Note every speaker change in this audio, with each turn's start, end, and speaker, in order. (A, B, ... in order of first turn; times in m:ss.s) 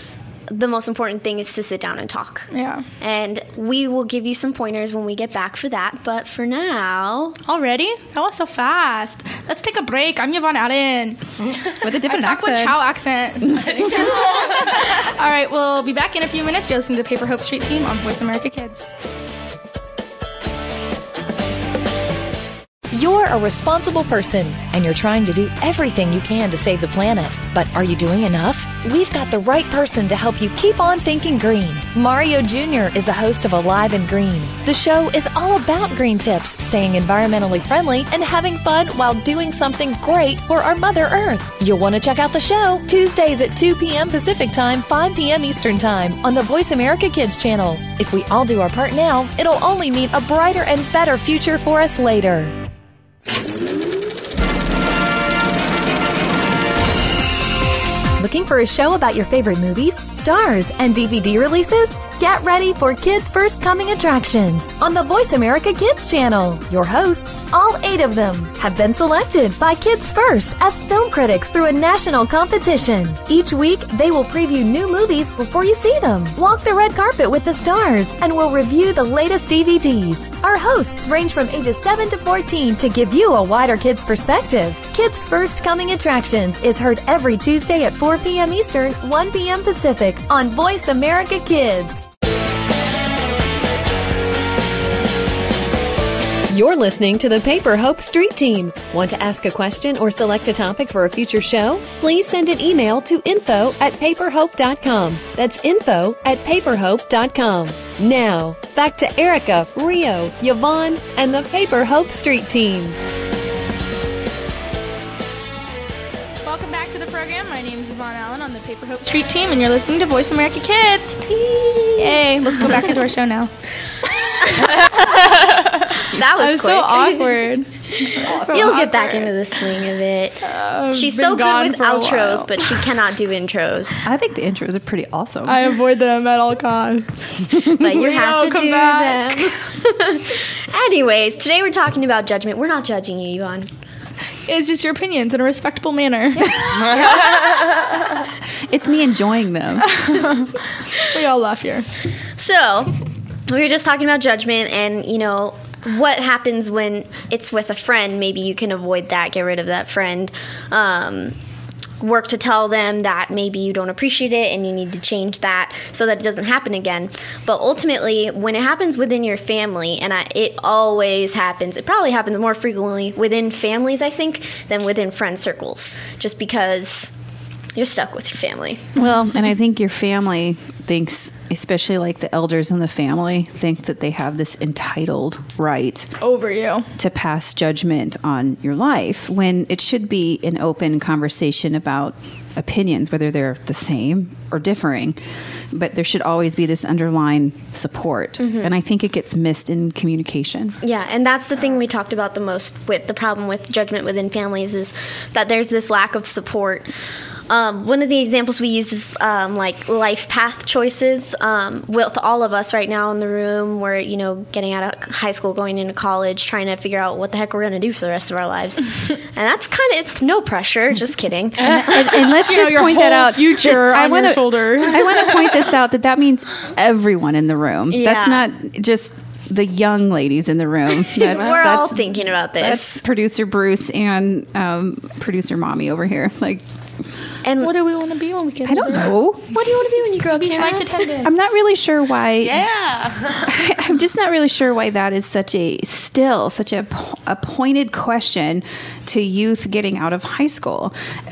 0:00.5-0:02.5 A
0:02.5-0:02.9 B
0:03.0-0:07.4 A
0:07.4-0:11.2 B
0:11.4-0:11.8 C
0:11.8-0:12.9 D
0:12.1-0:18.8 B
0:13.4-0:14.1 D
0:13.5-0:15.0 C
0:22.9-0:52.6 E
0:58.2-1:32.0 E
1:36.5-1:53.0 E
1:56.4-2:01.2 B
2:01.3-2:02.2 A
2:02.0-2:03.5 B
2:04.4-2:05.3 A
2:06.0-2:14.1 A
2:06.4-2:09.4 B
2:10.4-2:12.8 B
2:14.0-2:15.7 D
2:15.4-2:19.6 B
2:17.6-2:23.7 A
2:24.5-2:27.0 B
2:26.4-2:27.2 D
2:26.8-2:28.0 C
2:28.6-2:30.0 D
2:29.8-2:31.9 B
2:32.4-2:41.4 A
2:42.0-2:57.1 A
2:57.8-2:58.9 A
2:59.0-3:06.1 D
3:06.2-3:06.9 B
3:07.0-3:15.2 D
3:15.7-3:20.8 D
3:18.4-3:18.7 A
3:20.8-3:26.9 A
3:27.5-3:42.2 A
3:41.6-3:56.6 D
3:42.0-3:45.4 B
3:47.9-3:48.4 A
3:51.2-3:53.0 A
3:57.4-3:57.7 A
3:57.6-3:59.2 B
3:58.6-4:02.7 D
3:59.5-4:01.1 A
4:00.2-4:01.4 B
4:02.4-4:03.7 C
4:03.4-4:10.9 D